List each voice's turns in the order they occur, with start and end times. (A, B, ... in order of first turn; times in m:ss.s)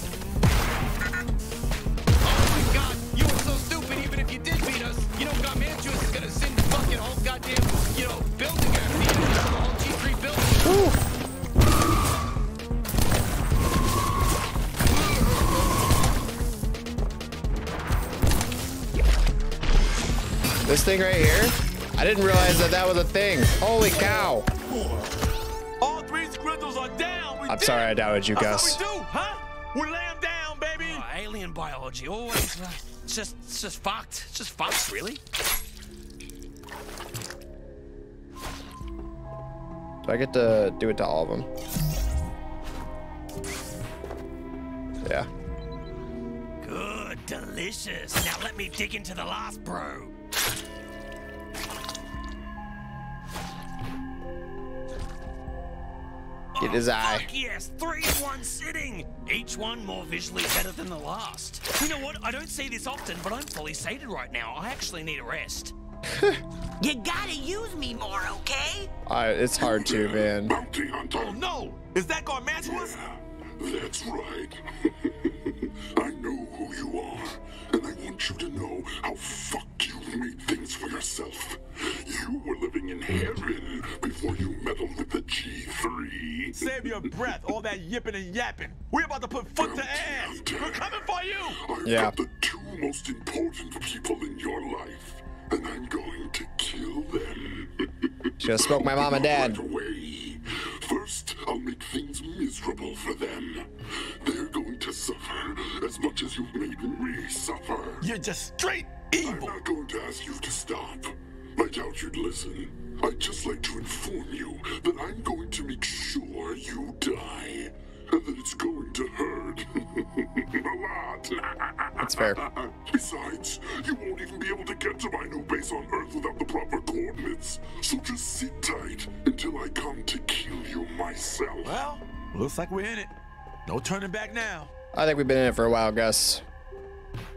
0:02.2-0:10.7 A
0:10.6-0:11.0 B
0:20.6-0:24.5 B
0:25.8-0:31.0 C
0:27.5-0:28.8 B
0:30.8-0:35.2 D
0:40.0-0:41.5 B
0:45.0-0:45.3 B
0:46.6-0:50.1 D
0:56.5-1:05.7 D
0:56.6-0:57.3 B
1:06.1-1:06.4 B
1:06.8-1:08.9 E
1:09.1-1:10.6 B
1:09.6-1:11.4 F
1:11.1-1:13.0 C
1:12.6-1:27.1 F
1:26.6-1:31.6 C
1:29.5-1:48.1 F
1:31.8-1:32.1 B
1:38.4-1:39.6 B
1:48.0-1:49.6 C
1:49.2-2:11.9 F
2:02.0-2:02.4 B
2:11.6-2:13.1 C
2:13.6-2:14.7 C
2:14.9-2:16.4 B